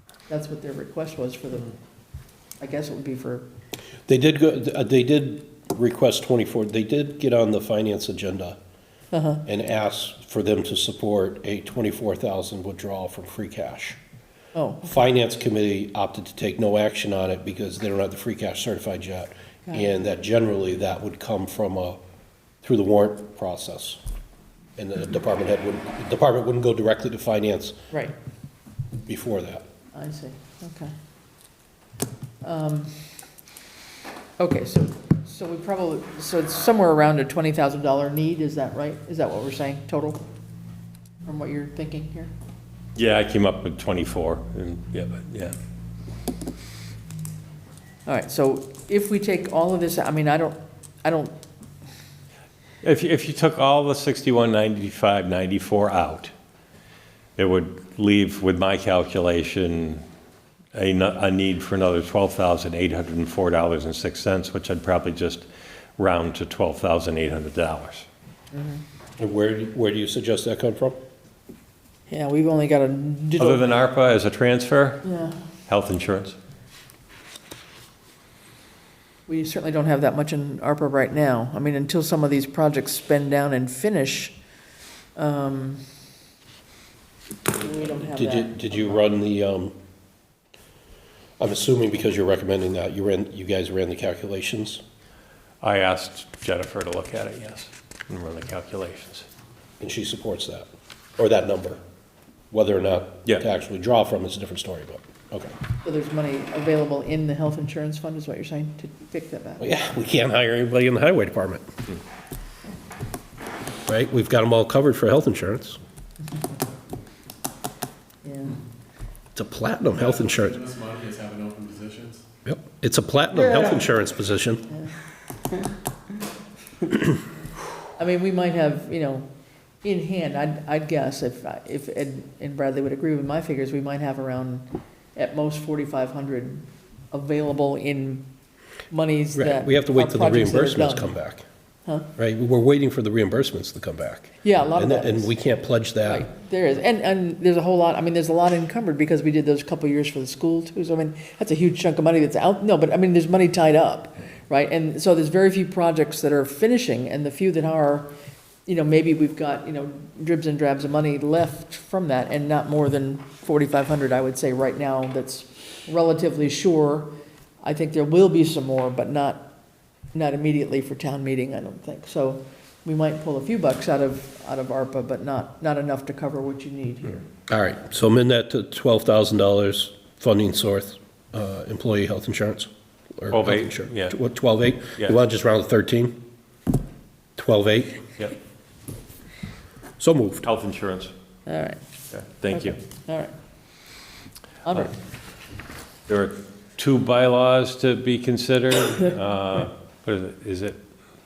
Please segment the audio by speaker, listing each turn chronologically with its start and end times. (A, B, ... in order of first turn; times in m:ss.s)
0:00.3-0:01.7 A
0:02.6-0:03.4 A
0:04.1-0:08.6 B
0:09.1-0:09.4 A
0:09.4-0:14.0 B
0:14.5-0:14.8 A
0:14.8-0:22.0 B
0:22.6-0:24.0 B
0:24.8-0:27.8 B
0:29.1-0:29.6 B
0:29.9-0:30.9 A
0:32.4-0:33.1 A
0:34.4-0:40.2 A
0:41.2-0:42.3 A
0:43.0-0:45.6 C
0:48.0-0:51.3 A
0:52.8-0:56.3 C
0:57.4-1:00.0 C
1:00.7-1:05.4 C
1:06.0-1:08.0 C
1:08.5-1:08.8 A
1:09.2-1:11.0 B
1:12.1-1:13.6 A
1:13.4-1:15.1 C
1:15.0-1:15.4 A
1:15.7-1:16.4 C
1:19.3-1:24.4 A
1:25.2-1:25.8 A
1:27.5-1:29.0 A
1:28.0-1:29.7 B
1:31.4-1:34.8 B
1:35.6-1:39.3 C
1:39.8-1:40.7 B
1:41.2-1:41.8 B
1:42.5-1:45.5 B
1:45.8-1:49.7 A
1:49.6-1:51.7 B
1:53.9-1:55.8 B
1:58.2-1:58.6 A
1:59.3-2:00.6 B
2:00.2-2:02.2 D
2:02.4-2:04.7 B
2:08.0-2:09.3 A
2:09.8-2:18.3 A
2:18.9-2:21.1 A
2:19.3-2:21.4 B
2:22.2-2:26.3 B
2:24.4-2:25.3 A
2:26.0-2:38.1 A
2:38.6-2:47.1 A
2:47.6-2:49.5 A
2:50.1-2:57.2 A
2:57.5-3:06.2 B
3:03.3-3:04.2 C
3:07.4-3:08.0 B
3:10.0-3:10.4 B
3:10.4-3:11.1 C
3:11.4-3:11.8 A
3:12.1-3:12.8 C
3:12.5-3:13.3 A
3:14.6-3:14.9 A
3:16.1-3:20.8 C